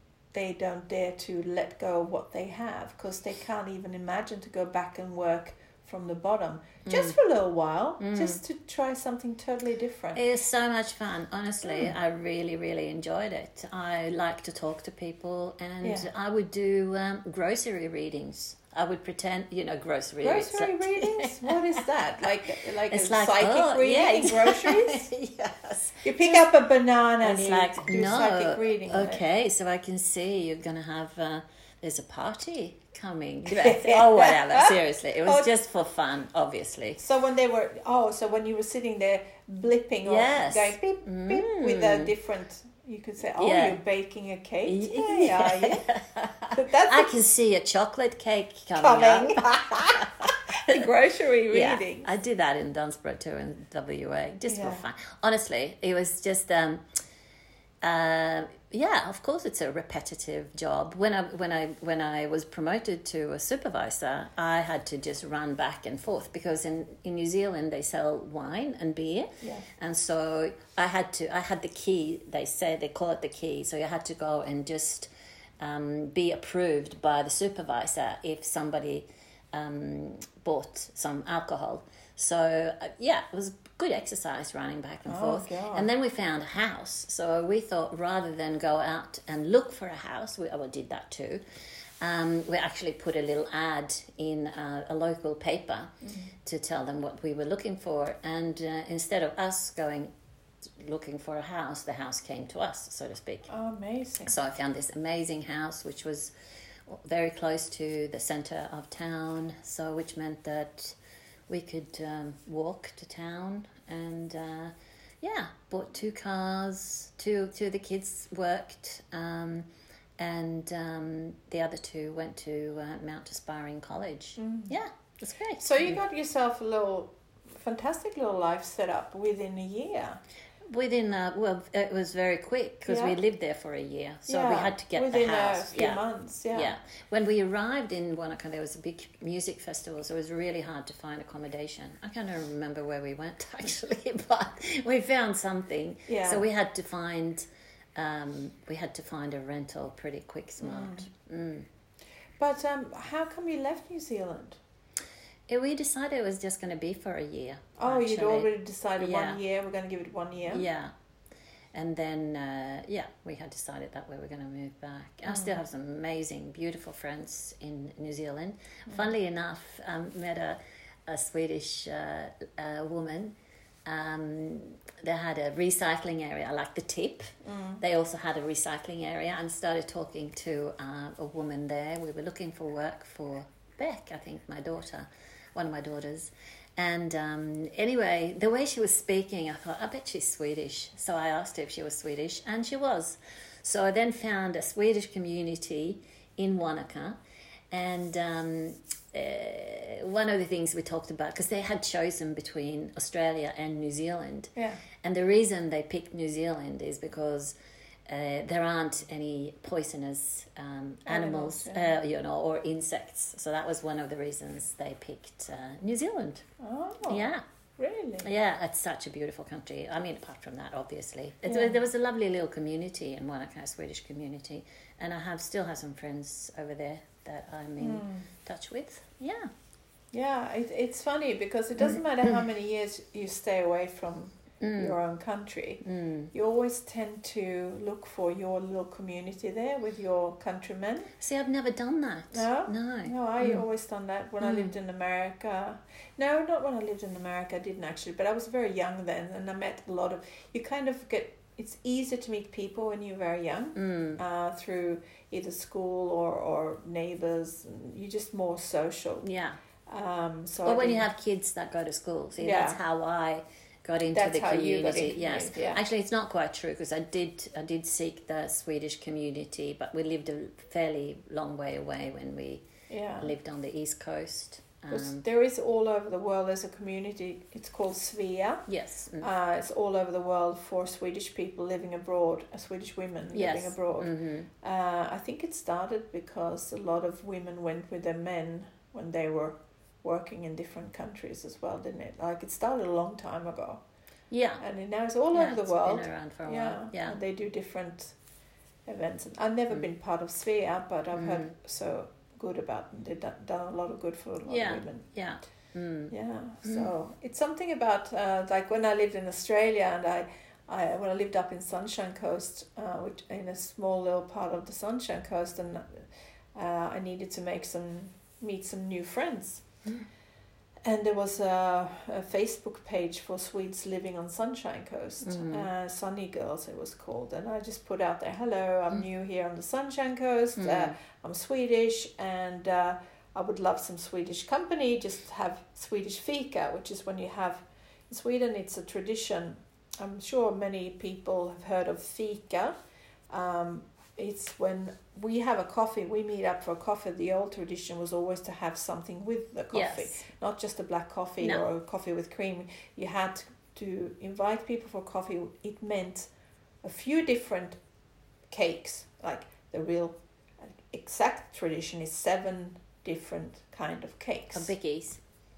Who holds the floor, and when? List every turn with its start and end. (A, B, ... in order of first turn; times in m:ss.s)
0:00.3-0:10.2 A
0:06.9-0:07.2 B
0:08.0-0:08.4 B
0:10.2-0:21.8 B
0:15.8-0:16.1 A
0:20.2-0:25.1 A
0:22.9-0:26.4 B
0:26.0-0:29.2 A
0:27.2-0:37.0 B
0:33.5-0:35.5 A
0:37.0-0:45.8 A
0:40.0-0:42.1 B
0:43.4-0:43.8 B
0:44.7-0:50.9 B
0:46.5-0:47.1 A
0:48.8-0:52.1 A
0:51.5-0:56.8 B
0:54.5-0:54.8 A
0:57.8-1:15.1 B
1:09.4-1:09.7 A
1:15.6-1:31.4 B
1:25.1-1:25.9 A
1:32.0-1:40.1 B
1:40.8-1:43.5 B
1:43.5-1:44.3 A
1:44.3-1:46.3 B
1:46.9-1:51.0 B
1:51.5-1:59.7 B
2:00.2-2:06.0 B
2:04.4-2:04.7 A
2:05.6-2:10.2 A
2:10.7-2:31.7 B
2:12.9-2:13.2 A
2:14.3-2:16.7 A
2:26.1-2:26.5 A
2:30.6-2:31.1 A
2:32.4-2:34.6 A
2:35.5-2:39.4 B
2:37.8-2:40.6 A
2:40.5-2:40.9 B
2:41.7-2:53.4 B
2:45.3-2:45.5 A
2:53.9-3:17.2 B
2:57.4-2:57.8 A
3:17.7-3:24.5 B
3:24.6-3:24.8 A
3:25.0-3:27.6 B
3:28.1-3:36.5 B
3:31.1-3:31.9 A
3:36.6-3:38.3 A
3:37.1-3:37.4 B
3:38.2-3:49.5 B
3:41.4-3:41.8 A
3:47.8-3:48.3 A
3:50.1-4:01.1 A
3:54.6-3:55.0 B
3:55.8-3:56.3 B
4:01.2-4:03.6 B
4:02.3-4:19.3 A
4:04.4-4:04.8 B
4:13.8-4:14.2 B
4:19.2-4:19.6 B
4:19.9-4:21.1 A
4:20.6-4:32.6 B
4:22.4-4:22.8 A
4:24.2-4:25.8 A
4:32.9-4:33.3 A
4:33.2-4:35.2 B
4:34.9-4:38.6 A
4:38.7-4:39.3 B
4:39.2-4:53.8 A
4:43.3-4:44.5 B
4:54.3-4:54.6 B
4:54.6-4:58.2 A
4:55.3-4:57.2 B
4:58.9-5:05.0 A
5:01.1-5:01.5 B
5:04.5-5:06.9 B
5:06.1-5:19.6 A
5:20.8-5:42.7 A
5:25.2-5:25.7 B
5:30.6-5:31.0 B
5:43.3-5:56.3 A
5:49.7-5:50.3 B
5:56.8-5:57.8 A
5:58.5-6:04.7 A
6:04.5-6:05.2 B